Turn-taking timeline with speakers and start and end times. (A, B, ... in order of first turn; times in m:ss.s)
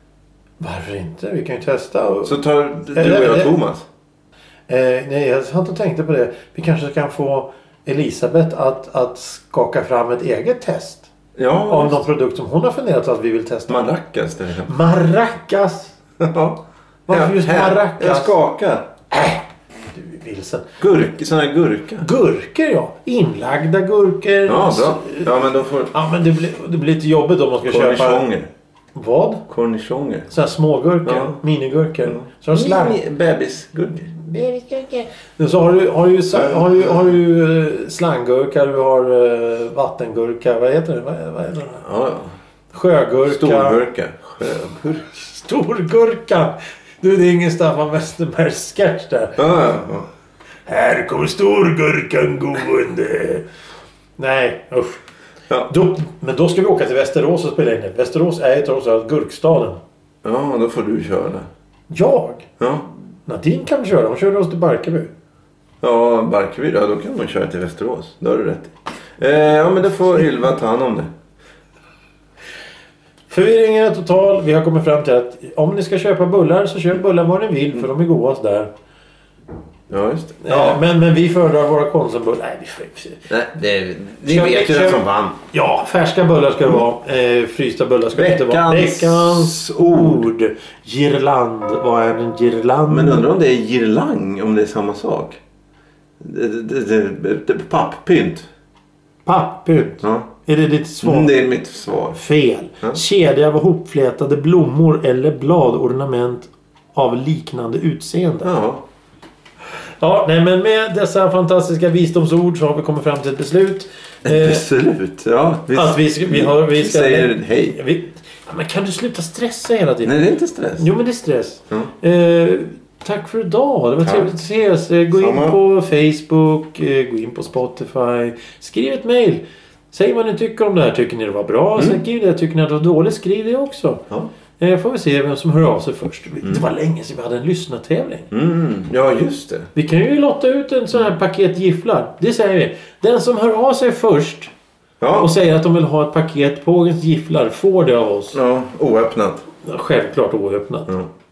0:00.6-0:02.4 A
0:02.2-0:03.9 B
0:02.9-0:03.5 A
0:04.7-0:11.1 A
0:11.4-0:12.0 B
0:11.7-0:13.8 A
0:13.7-0:14.7 B
0:14.7-0:16.0 A
0:16.2-0:18.9 B
0:17.1-0:18.4 A
0:19.1-0:20.7 A
0:20.8-0:22.1 B
0:22.0-0:28.3 A
0:24.5-0:25.9 B
0:27.7-0:28.5 B
0:28.9-0:29.4 A
0:29.5-0:30.3 B
0:30.3-0:33.0 A
0:31.0-0:31.4 B
0:32.1-0:34.1 B
0:34.1-0:41.8 A
0:36.4-0:36.8 B
0:41.8-0:42.4 B
0:42.7-0:43.8 A
0:43.3-0:45.0 B
0:44.7-0:49.4 A
0:49.4-0:50.1 B
0:50.7-0:53.4 A
0:54.2-0:55.0 A
0:55.7-0:59.8 A
1:00.2-1:01.5 B
1:01.9-1:02.5 A
1:02.6-1:02.9 B
1:03.3-1:05.1 A
1:05.8-1:11.1 B
1:13.3-1:18.7 A
1:19.9-1:20.8 B
1:20.4-1:23.2 A
1:23.3-1:25.4 B
1:24.2-1:33.2 A
1:28.1-1:30.3 B
1:32.9-1:35.4 B
1:36.2-1:38.5 B
1:39.2-1:41.3 A
1:40.0-1:40.3 B
1:41.0-1:42.2 B
1:42.2-1:48.5 A
1:48.4-1:48.8 B
1:49.8-1:54.6 A
1:54.2-1:57.8 B
1:55.7-2:14.0 A
2:00.0-2:00.9 B
2:04.0-2:04.3 B
2:05.2-2:05.6 B
2:14.6-2:18.3 A
2:18.3-2:19.7 B
2:19.7-2:24.5 A
2:25.0-2:25.3 B
2:25.2-2:28.4 A
2:28.3-2:29.5 B
2:29.6-2:30.9 A